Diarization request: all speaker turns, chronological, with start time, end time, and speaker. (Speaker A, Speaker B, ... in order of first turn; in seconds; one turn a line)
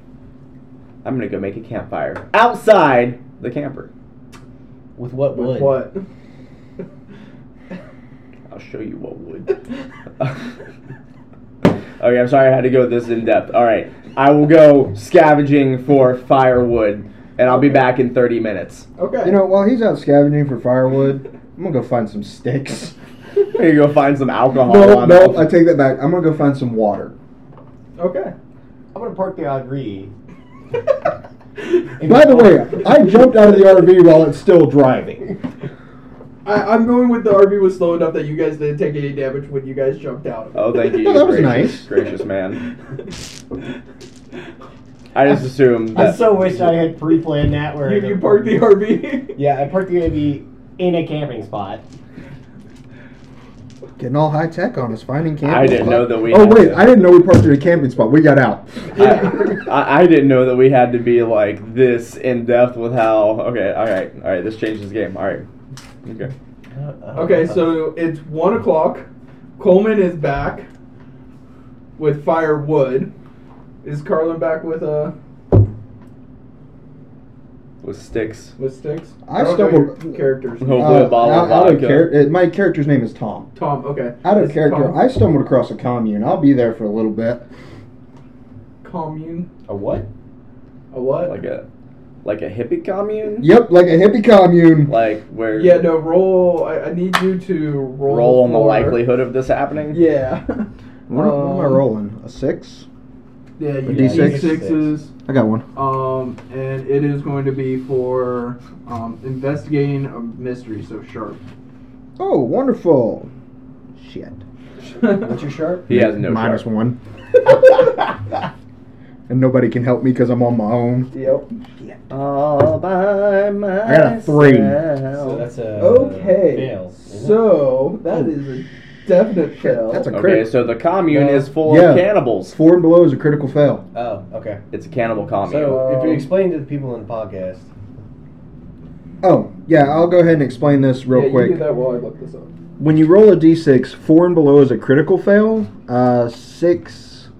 Speaker A: 1.0-3.9
Speaker B: 5.0-5.8
Speaker C: 5.3-6.0
Speaker A: 8.5-9.6
Speaker A: 10.2-10.4
Speaker A: 12.0-18.9
Speaker C: 19.0-19.4
Speaker D: 19.2-22.9
Speaker A: 23.5-25.5
Speaker D: 24.6-27.1
Speaker C: 28.0-28.3
Speaker B: 28.9-30.1
Speaker B: 32.0-32.9
Speaker D: 32.0-35.4
Speaker C: 36.4-40.7
Speaker A: 40.5-42.6
Speaker D: 40.9-41.9
Speaker A: 45.1-46.7
Speaker B: 45.9-48.6
Speaker C: 47.8-49.4
Speaker B: 49.3-51.8
Speaker D: 54.0-59.0
Speaker A: 55.4-57.0
Speaker C: 58.9-59.6
Speaker A: 59.0-65.5
Speaker A: 66.0-66.3
Speaker B: 66.7-67.8
Speaker C: 67.1-69.1
Speaker C: 69.6-70.7
Speaker C: 72.0-73.1
Speaker C: 73.8-75.1
Speaker A: 77.8-78.5
Speaker C: 78.6-81.0
Speaker D: 79.2-83.5
Speaker A: 80.6-82.1
Speaker C: 83.5-85.0
Speaker D: 84.2-87.4
Speaker C: 88.8-89.5
Speaker B: 89.7-90.1
Speaker C: 90.9-91.3
Speaker A: 91.2-91.7
Speaker A: 92.2-93.5
Speaker D: 93.4-94.9
Speaker A: 94.9-95.9
Speaker C: 95.5-99.0
Speaker A: 98.1-100.0
Speaker C: 99.9-101.8
Speaker D: 101.1-102.9
Speaker C: 103.6-105.1
Speaker B: 103.8-104.9
Speaker D: 103.9-104.5
Speaker D: 105.2-105.7
Speaker C: 105.7-111.4
Speaker D: 112.2-113.3
Speaker D: 113.9-114.4
Speaker C: 115.0-115.3
Speaker B: 115.0-115.9
Speaker A: 115.9-116.7
Speaker D: 115.9-117.0
Speaker D: 119.3-121.1
Speaker C: 121.1-121.5
Speaker A: 122.1-125.4
Speaker D: 123.8-124.8
Speaker B: 125.1-127.5
Speaker C: 125.8-130.1
Speaker D: 129.6-130.5
Speaker A: 130.1-132.5
Speaker C: 131.1-131.5
Speaker D: 131.6-133.8
Speaker B: 133.9-134.6
Speaker A: 134.7-135.9
Speaker B: 135.4-137.7
Speaker C: 135.7-136.3
Speaker D: 139.2-141.6
Speaker C: 141.1-142.5
Speaker D: 142.8-147.3